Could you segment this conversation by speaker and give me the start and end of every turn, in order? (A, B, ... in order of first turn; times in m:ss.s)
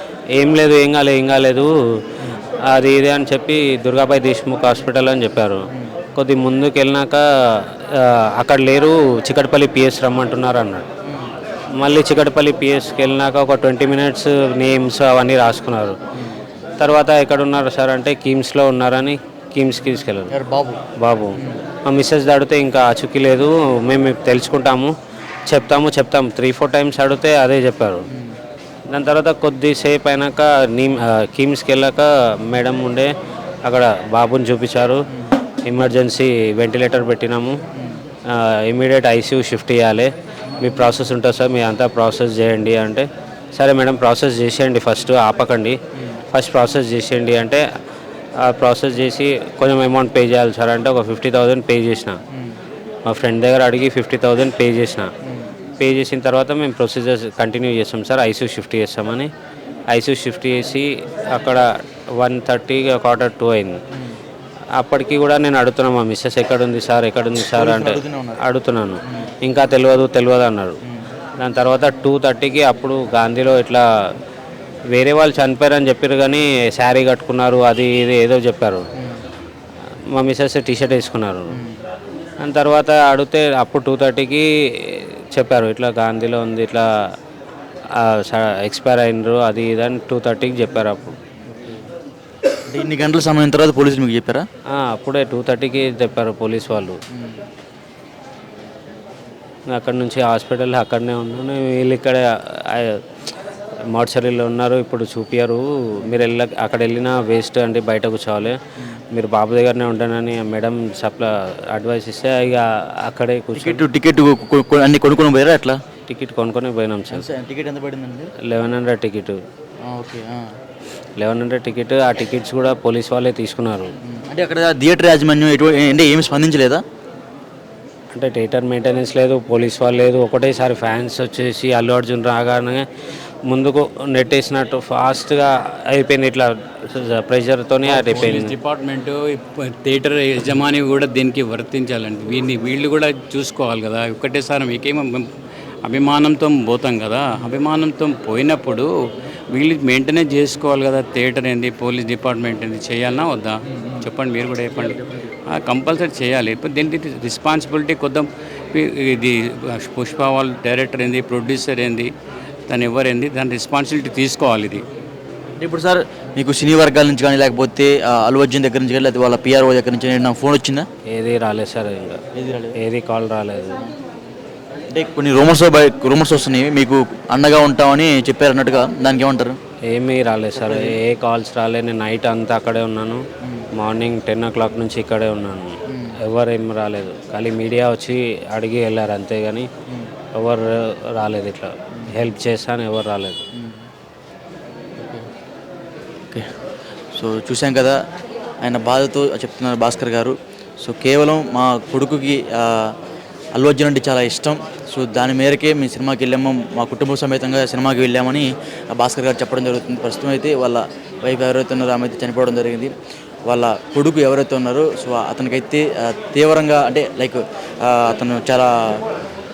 0:00.4-0:02.0 A
0:02.7-0:05.6 A
0:06.2-0:10.9 A
0:11.1-0:11.3 B
0:11.8-0:16.0 A
0:16.8-0:20.3 A
0:20.3-0:20.8 B
0:21.0-0:24.9 A
0:25.5-0:28.0 A
0:28.9-0:33.1 A
0:33.7-0:35.0 A
0:35.7-0:37.6 A
0:38.3-0:45.8 A
0:46.3-0:47.6 A
0:48.4-0:52.2 A
0:53.1-0:55.1 A
0:55.8-0:59.3 A
0:59.9-1:01.6 A
1:02.2-1:03.8 A
1:04.8-1:10.8 A
1:07.4-1:08.4 B
1:09.1-1:09.3 B
1:11.4-1:13.8 A
1:14.9-1:18.8 A
1:20.1-1:21.6 A
1:21.5-1:21.8 B
1:22.4-1:26.8 A
1:28.0-1:31.2 A
1:32.7-1:34.4 B
1:34.7-1:37.0 A
1:39.7-1:43.0 A
1:43.9-1:48.6 A
1:49.1-1:53.9 A
1:53.6-1:55.8 B
1:56.1-1:57.3 A
1:57.1-1:58.3 B
1:58.5-1:59.4 A
1:59.9-2:00.4 B
2:01.2-2:03.9 A
2:04.1-2:06.8 B
2:08.1-2:12.9 A
2:13.5-2:18.5 A
2:17.8-2:25.3 C
2:25.8-2:28.9 C
2:29.5-2:42.1 C
2:42.7-2:44.8 C
2:45.6-2:50.9 B
2:51.1-2:52.2 A
2:52.4-2:52.8 B
2:52.8-2:53.8 A
2:54.9-2:59.6 B
2:59.9-3:03.2 A
3:00.5-3:01.0 B
3:03.8-3:09.7 A
3:05.9-3:06.2 B
3:10.4-3:13.4 A
3:13.6-3:13.9 B
3:17.1-3:18.0 B
3:18.6-3:22.9 B
3:23.6-3:32.9 B
3:33.5-3:39.0 B